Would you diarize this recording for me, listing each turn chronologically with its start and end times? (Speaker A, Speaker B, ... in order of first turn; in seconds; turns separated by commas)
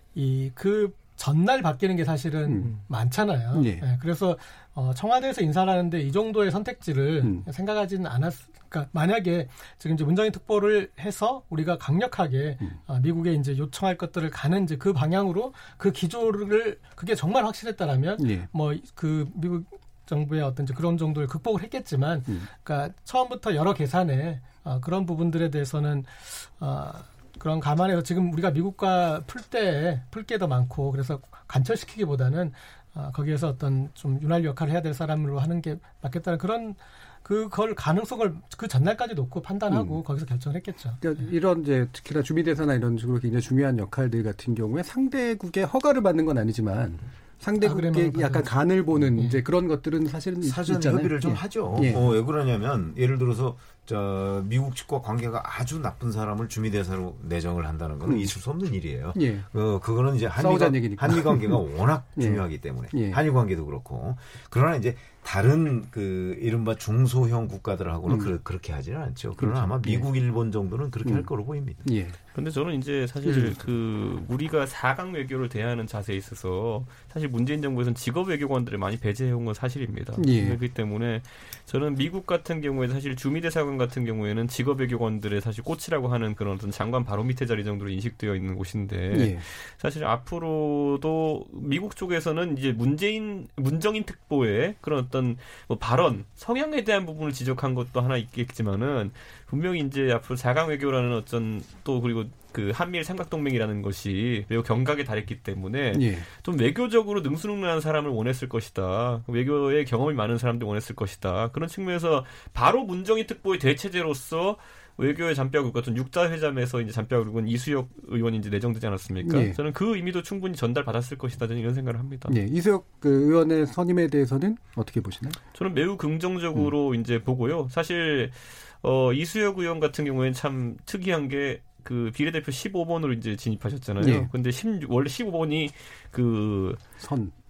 Speaker A: 0.1-41.2, Speaker B: 2.5-2.8, Speaker B: 3.5-3.8, Speaker B: 18.2-18.5, Speaker B: 39.7-40.0, Speaker B: 41.0-52.1, Speaker A: 47.6-48.5, Speaker C: 50.4-71.8, Speaker B: 58.0-58.3, Speaker B: 59.1-59.5, Speaker B: 60.3-63.2, Speaker B: 68.0-68.3, Speaker B: 69.4-70.1, Speaker B: 71.0-71.3, Speaker B: 71.8-72.2, Speaker D: 72.3-122.3, Speaker B: 73.2-73.6, Speaker B: 80.2-80.6, Speaker B: 89.1-89.4, Speaker B: 105.9-106.2, Speaker B: 119.2-119.6, Speaker B: 122.3-125.4, Speaker D: 125.5-136.8, Speaker B: 134.0-134.3, Speaker B: 137.0-137.3